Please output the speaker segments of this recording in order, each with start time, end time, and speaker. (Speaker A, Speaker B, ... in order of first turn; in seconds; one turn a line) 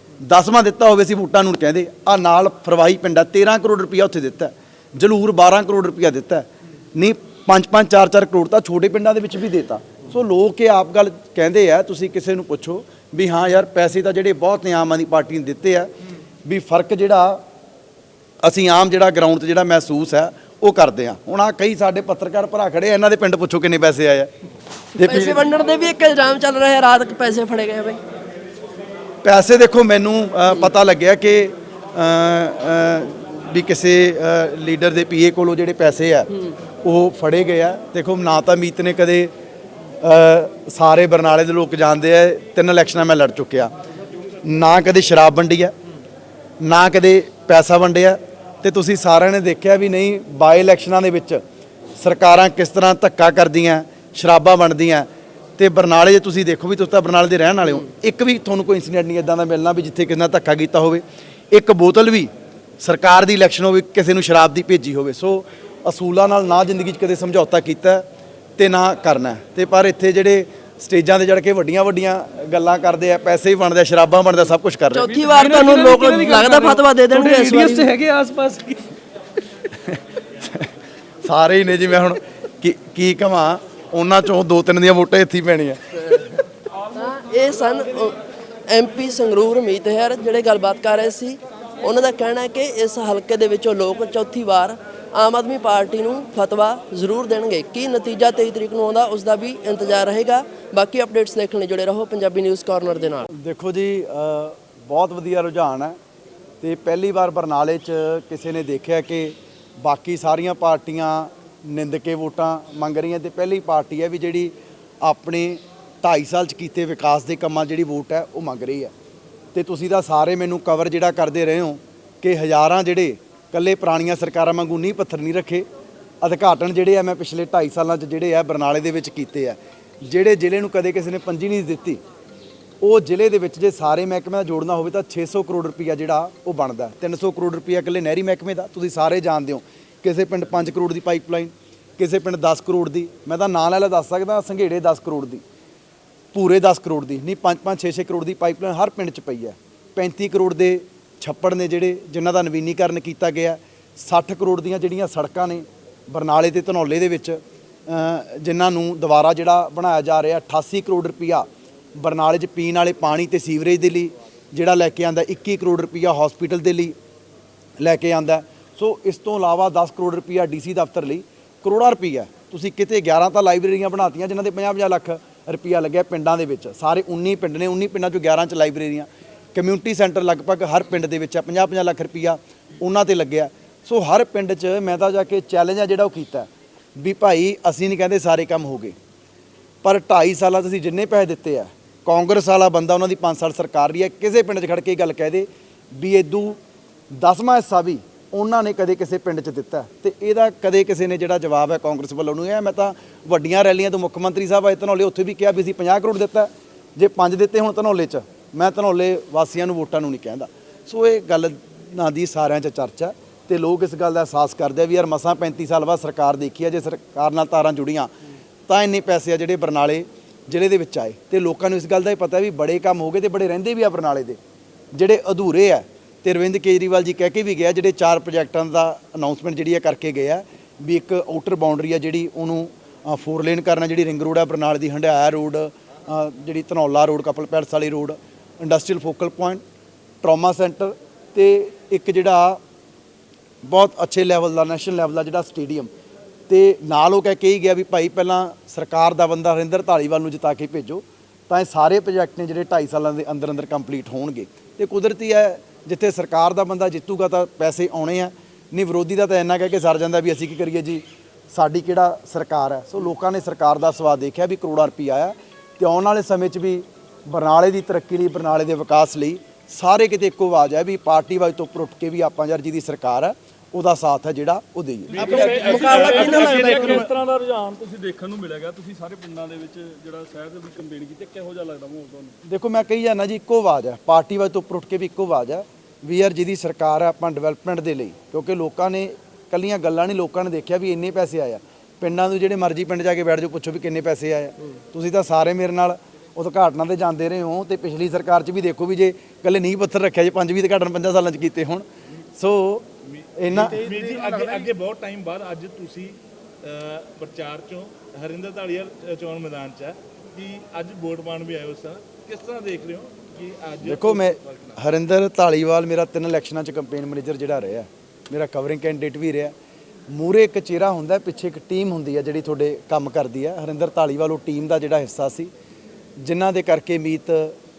Speaker A: 0.2-15.9
Speaker A: 16.4-17.4
Speaker A: 18.4-24.3
Speaker A: 25.0-25.4
Speaker B: 25.0-28.0
Speaker A: 29.2-39.3
Speaker A: 40.0-43.7
Speaker A: 44.4-45.8
Speaker A: 46.6-51.4
Speaker A: 52.0-68.1
Speaker A: 68.6-75.1
Speaker B: 74.9-77.9
Speaker C: 75.1-78.8
Speaker A: 79.8-80.7
Speaker A: 81.2-86.3
Speaker B: 86.9-103.3
Speaker A: 103.3-106.0
Speaker A: 106.6-118.9
Speaker A: 119.5-125.7
Speaker A: 126.2-132.0
Speaker A: 132.8-145.4
Speaker A: 146.3-166.9
Speaker A: 167.8-189.0
Speaker A: 189.8-196.6
Speaker A: 197.1-218.1
Speaker A: 218.7-224.4
Speaker A: 224.9-239.6
Speaker A: 240.2-242.6
Speaker A: 243.6-245.9
Speaker A: 246.5-276.1
Speaker D: 275.1-282.4
Speaker E: 275.3-277.1
Speaker B: 275.6-276.9
Speaker A: 282.4-301.9
Speaker A: 302.4-303.9
Speaker E: 303.0-314.8
Speaker D: 303.9-304.6
Speaker A: 313.9-319.6
Speaker A: 320.1-325.5
Speaker A: 326.2-327.6